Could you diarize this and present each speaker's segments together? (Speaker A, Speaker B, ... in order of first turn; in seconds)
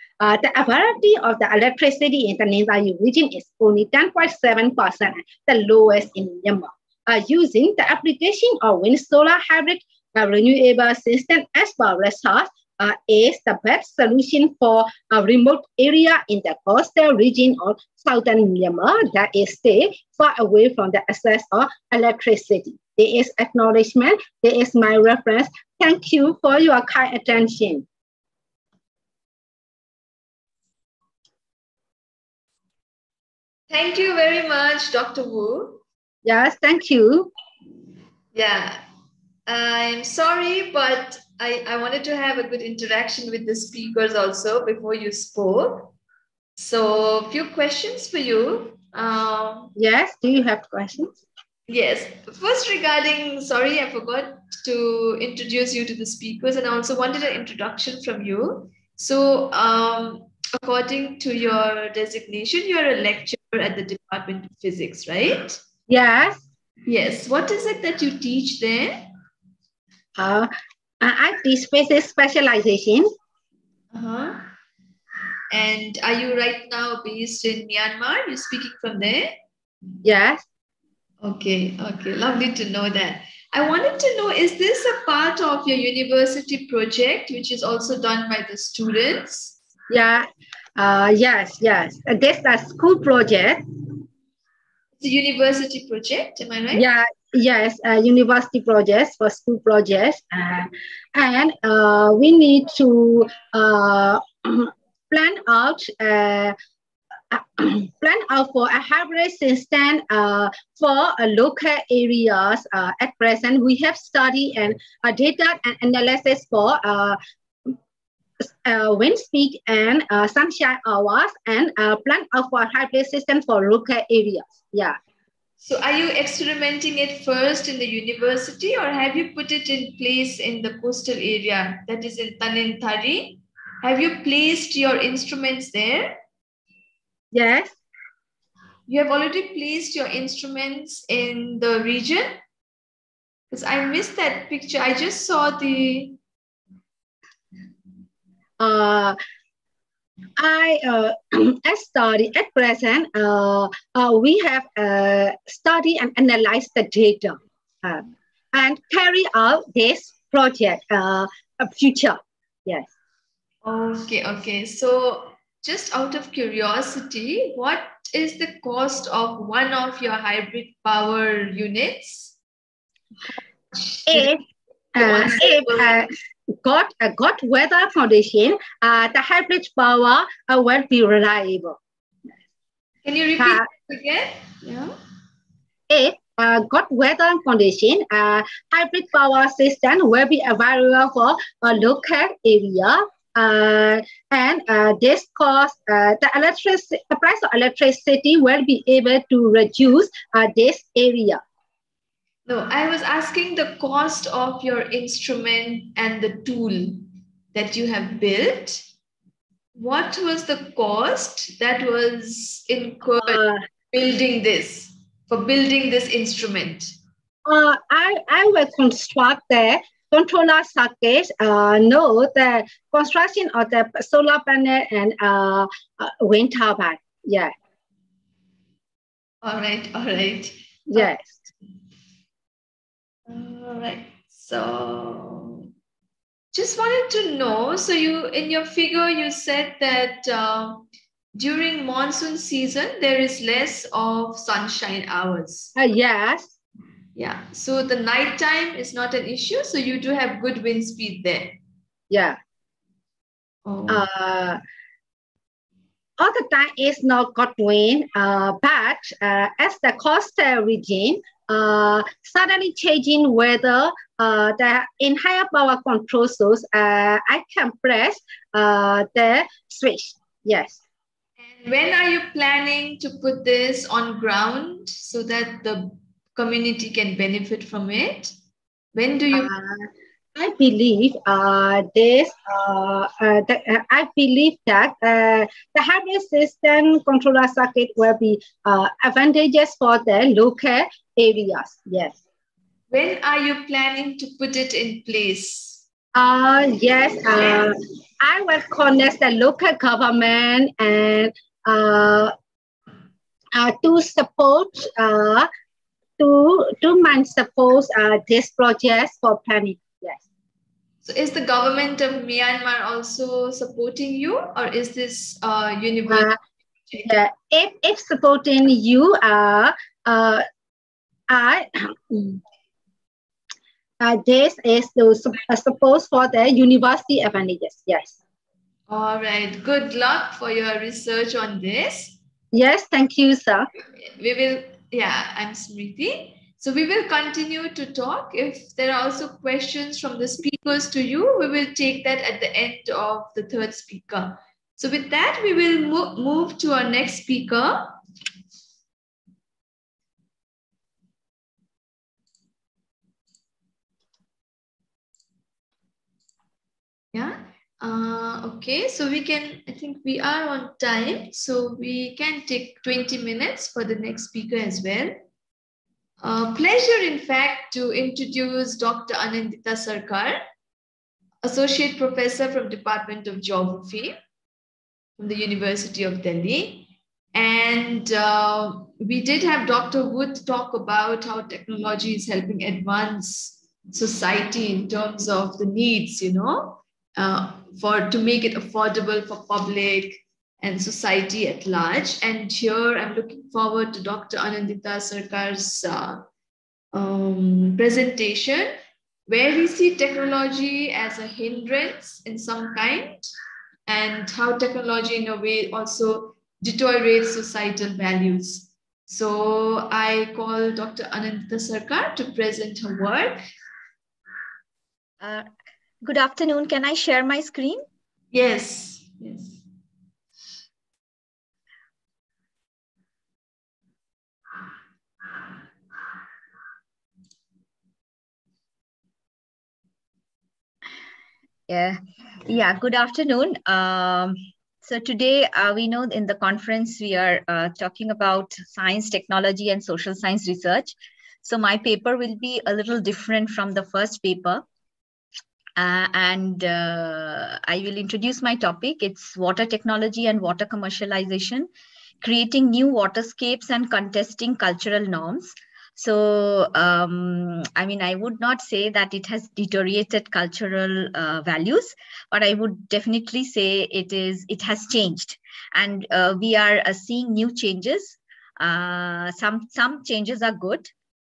Speaker A: 0.2-27.8, 36.2-37.3, 49.8-51.1, 65.9-66.4, 70.2-73.0, 80.0-80.4, 89.9-90.2, 90.8-93.9, 96.7-106.5, 107.3-117.2, 118.4-125.0, 137.3-137.8, 148.6-149.2, 150.4-162.9, 174.1-174.4, 174.9-176.1, 176.6-181.8, 183.4-183.6, 185.9-201.4, 213.2-213.6, 217.4-227.5, 230.9-231.4, 245.8-246.5, 252.1-252.4, 253.9-254.6, 256.2-270.8, 279.3-292.2, 296.1-302.3, 303.5-305.5, 306.2-310.2, 316.1-316.4, 317.1-320.4, 321.3-322.4, 324.0-328.1, 332.5-333.7
Speaker B: 33.7-35.8, 38.3-38.8, 39.5-45.9, 46.6-49.7, 51.7-65.6, 66.8-69.1, 73.9-74.5, 75.5-79.4, 81.2-89.5, 95.0-96.8, 125.6-136.2, 138.9-142.4, 143.5-146.2, 163.6-172.3, 173.7-174.3, 174.9-175.9, 183.0-184.9, 202.4-208.8, 209.7-216.9, 229.4-231.1, 233.3-235.7, 236.5-245.7, 247.2-251.6, 253.7-254.1, 271.4-278.3, 278.9-279.5, 292.9-295.8, 311.0-316.4, 328.9-332.2, 334.0-348.0, 357.1-365.2, 366.2-370.4, 371.4-374.2, 375.2-396.2, 396.9-403.3, 403.9-413.4, 418.3-419.6
Speaker C: 415.2-415.5, 416.0-417.8, 431.7-444.6, 445.8-451.7, 452.2-470.9